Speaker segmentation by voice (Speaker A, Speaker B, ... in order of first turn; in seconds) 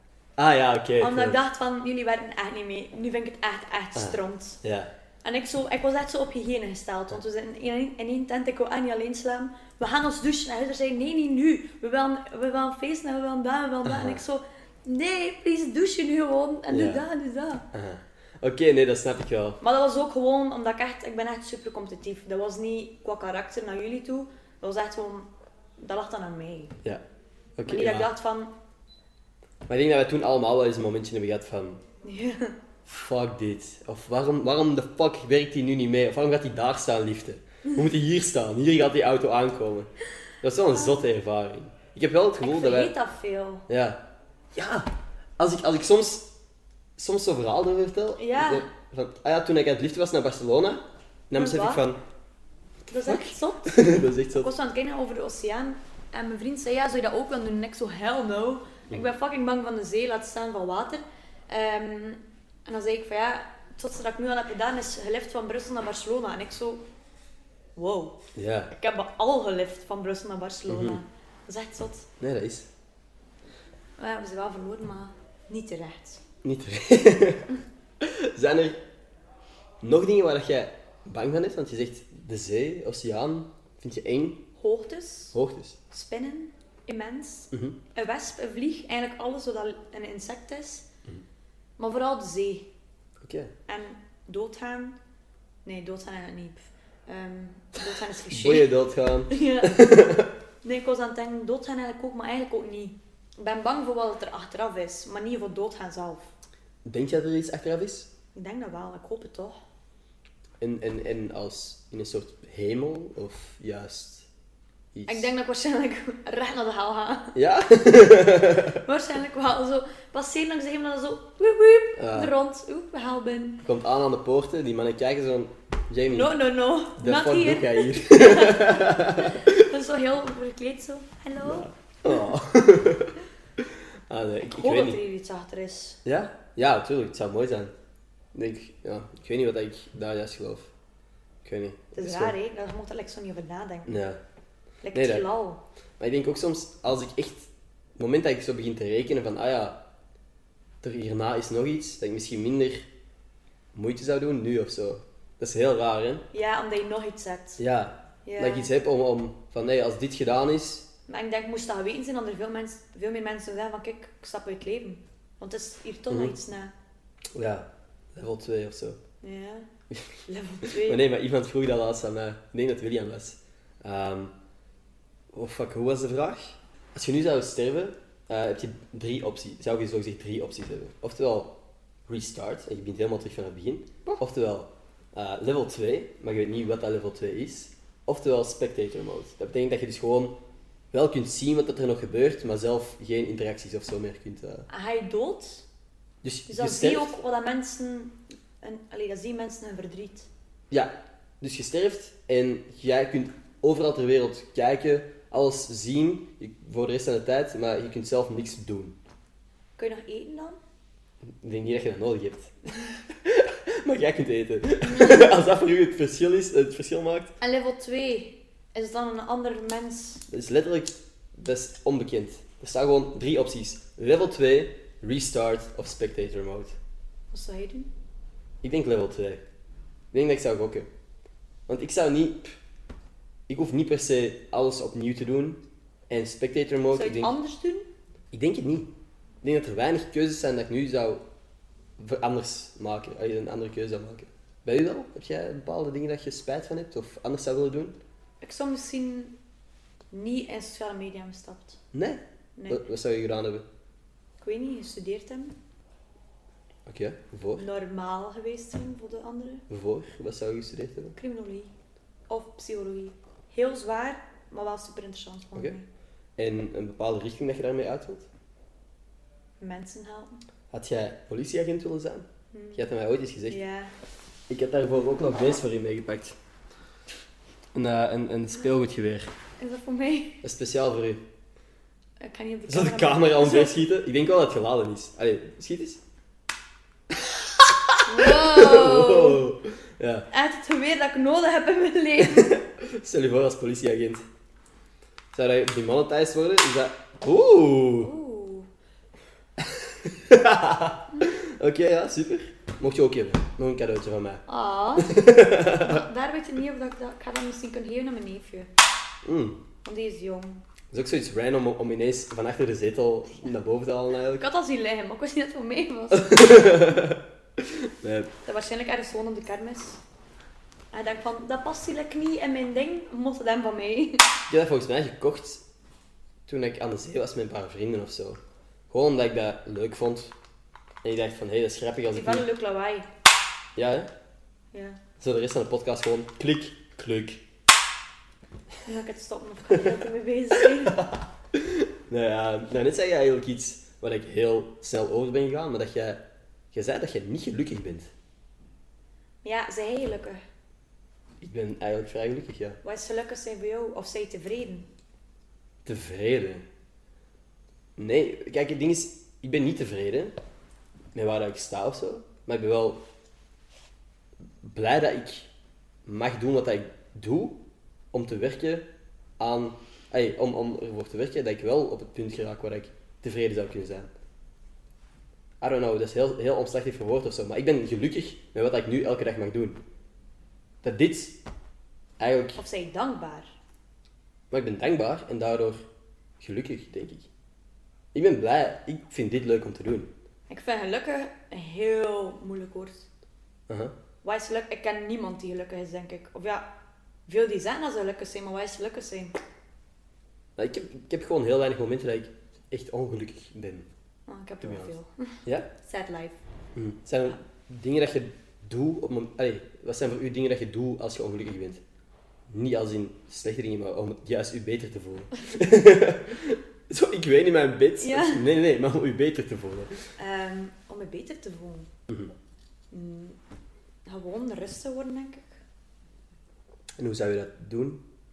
Speaker A: 0.4-1.4, 4.0-4.9, 13.8-14.2, 16.7-17.0, 17.7-19.6, 27.6-28.1, 29.7-31.8, 32.9-39.9, 40.4-42.9, 43.7-44.0, 44.5-46.3, 47.0-52.0, 53.0-54.5, 68.3-68.7, 70.7-71.0, 72.2-72.7, 76.4-77.5, 78.0-78.8, 79.8-84.4, 85.3-85.8, 87.5-87.8, 93.2-93.5, 98.3-100.3, 106.8-108.1, 110.6-114.3, 114.9-115.3, 117.3-118.8, 122.0-122.3, 123.6-126.3, 127.0-129.7, 131.4-135.0, 136.0-137.7, 138.3-140.7, 141.4-142.3, 143.9-144.2, 144.9-145.2, 146.0-149.8, 150.8-152.9, 153.7-156.2, 157.6-160.8, 167.3-169.0, 169.9-174.3, 175.3-181.5, 182.1-190.4, 190.9-194.7, 196.2-197.1, 200.7-209.0, 211.4-217.3, 220.3-226.8, 228.6-229.4, 230.1-230.9, 231.7-232.6, 233.5-237.3, 238.3-238.9, 239.4-241.2, 242.0-248.0, 251.9-253.6, 256.9-257.7, 259.7-261.1, 266.4-268.3, 270.7-273.6, 274.5-276.4, 277.7-279.3, 280.4-281.2, 282.7-286.0, 287.1-290.2, 292.2-294.2, 295.3-298.1, 299.6-304.4, 305.0-306.0, 309.2-309.6, 310.9-314.4, 316.1-318.3, 324.5-325.6, 326.5-330.3, 331.0-332.5, 333.8-334.1, 335.2-337.4, 340.8-348.1, 351.4-352.8, 355.8-356.6, 358.0-360.3, 361.1-363.0, 364.6-365.5, 366.1-367.6, 368.1-368.9, 369.4-374.1, 375.6-379.8, 380.8-381.4, 382.2-382.6, 384.5-385.8, 386.4-387.3, 388.1-390.1, 400.6-403.9, 404.6-404.9, 406.7-411.8, 412.5-419.9, 427.0-428.0
Speaker B: 1.0-4.6, 5.2-17.6, 19.6-26.8, 27.6-28.5, 32.0-32.6, 40.7-41.0, 42.4-43.6, 48.2-48.7, 51.3-51.8, 52.9-66.8, 67.8-68.2, 68.7-72.1, 74.0-76.2, 84.6-85.3, 85.9-90.9, 91.8-92.7, 93.7-95.0, 95.6-98.7, 99.3-99.7, 100.6-106.3, 108.3-109.6, 115.1-117.3, 118.8-123.6, 126.1-132.2, 134.5-136.0, 141.9-144.0, 144.8-145.6, 156.3-157.6, 158.2-158.7, 161.1-166.7, 169.2-169.7, 170.3-171.0, 194.7-195.6, 196.5-200.3, 209.8-210.6, 214.9-215.2, 217.4-220.2, 227.3-227.9, 236.9-237.9, 248.4-249.3, 250.1-251.8, 252.6-252.8, 254.4-255.6, 257.6-259.6, 261.1-261.7, 262.3-265.9, 269.6-270.4, 272.5-272.9, 273.5-273.9, 279.6-280.4, 282.2-283.8, 288.1-289.4, 290.3-292.6, 298.0-298.7, 304.5-308.7, 309.8-310.6, 314.4-316.9, 318.4-320.0, 320.9-324.4, 332.1-333.1, 334.7-335.0, 338.8-341.0, 349.4-350.4, 352.8-354.9, 382.6-383.5, 390.5-393.1, 394.2-396.7, 397.3-399.4, 404.3-406.4, 418.0-418.5, 420.2-421.9, 422.9-423.4, 424.1-425.6